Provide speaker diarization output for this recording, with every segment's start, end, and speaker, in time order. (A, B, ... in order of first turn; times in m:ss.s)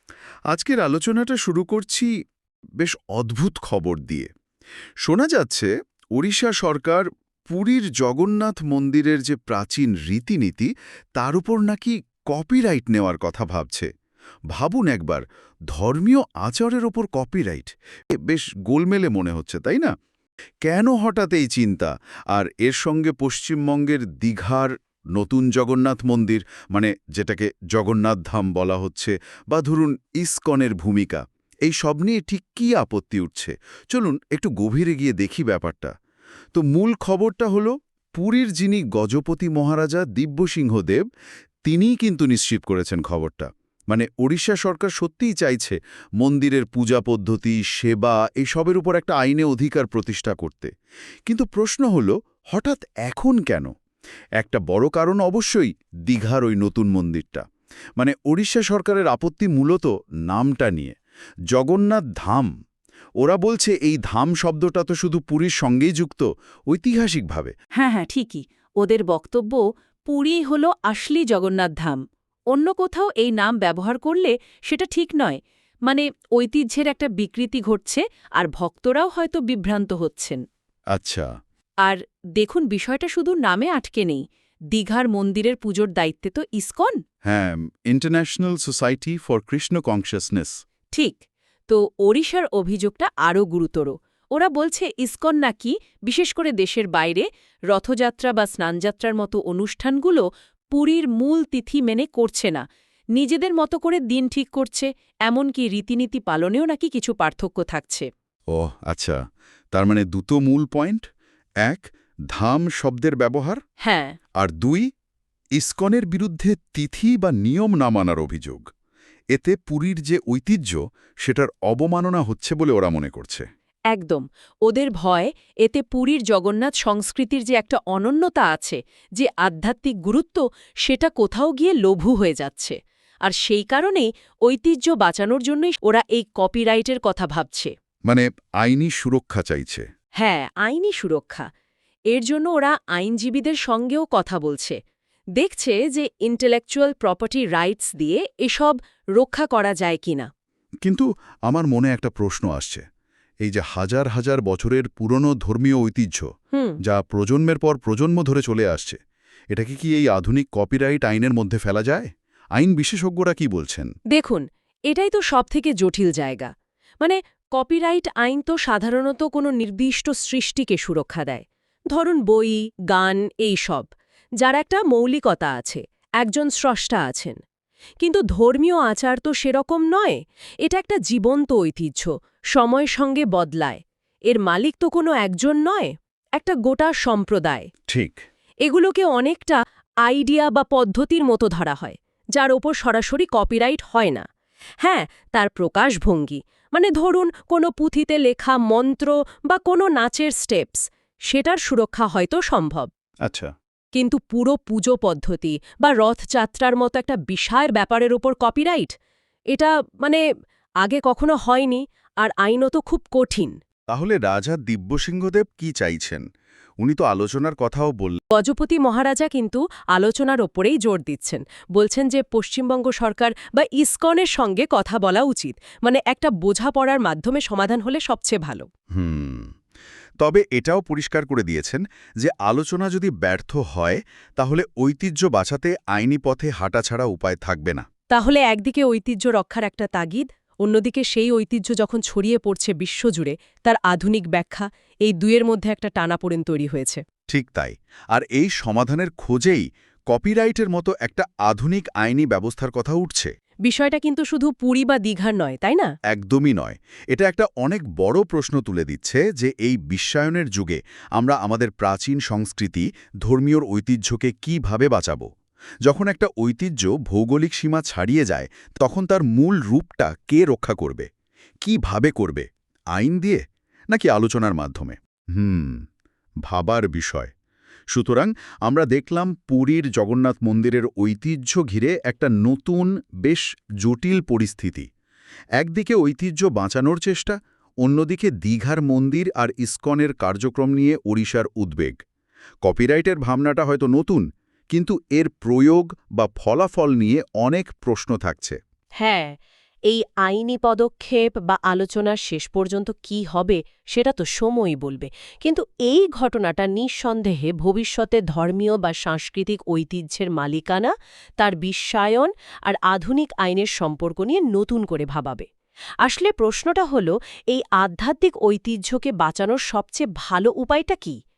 0:00.5-0:02.1 A
0:02.8-0:04.3 A
0:05.0-0:13.9 A
0:14.5-0:17.7 A
0:18.2-0:19.9 A
0:20.6-0:35.9 A
0:36.5-0:41.0 A
0:41.6-0:50.7 A
0:51.3-0:53.7 A
0:54.4-0:57.4 A
0:58.0-1:00.9 A
1:01.5-1:02.5 A
1:03.2-1:07.5 A
1:07.8-1:20.4 B
1:20.9-1:21.3 A
1:21.8-1:27.0 B
1:27.2-1:30.6 A
1:30.9-1:42.6 B
1:43.1-1:48.1 B
1:48.5-1:49.2 A
1:49.7-1:51.1 A
1:51.6-1:53.6 A
1:53.8-1:54.1 B
1:54.4-1:54.8 A
1:55.6-1:58.6 A
1:59.3-2:03.4 A
2:03.9-2:17.7 B
2:18.1-2:19.9 A
2:20.2-2:21.5 B
2:22.1-2:24.8 B
2:25.4-2:30.3 B
2:30.8-2:32.8 A
2:33.4-2:36.3 A
2:36.8-2:39.0 A
2:39.5-2:43.9 A
2:44.1-2:53.9 B
2:54.4-2:57.4 B
2:58.0-3:07.7 B
3:07.9-3:08.2 A
3:08.6-3:14.2 B
3:14.8-3:22.9 B
3:23.9-3:28.9 B
3:29.5-3:30.2 B
3:30.8-3:33.6 B
3:33.9-3:36.2 A
3:36.8-3:38.2 A
3:38.3-3:48.6 B
3:48.9-3:49.5 A
3:50.2-3:57.8 A
3:58.1-4:07.0 B
4:07.3-4:13.3 A
4:13.6-4:15.9 B
4:16.1-4:25.3 A
4:25.8-4:31.1 A
4:31.6-4:35.8 A
4:36.5-4:37.3 A
4:37.9-4:44.9 A
4:45.6-4:51.9 A
4:52.6-4:58.6 A
4:59.0-4:59.3 B
4:59.9-5:15.5 B
5:16.0-5:21.2 B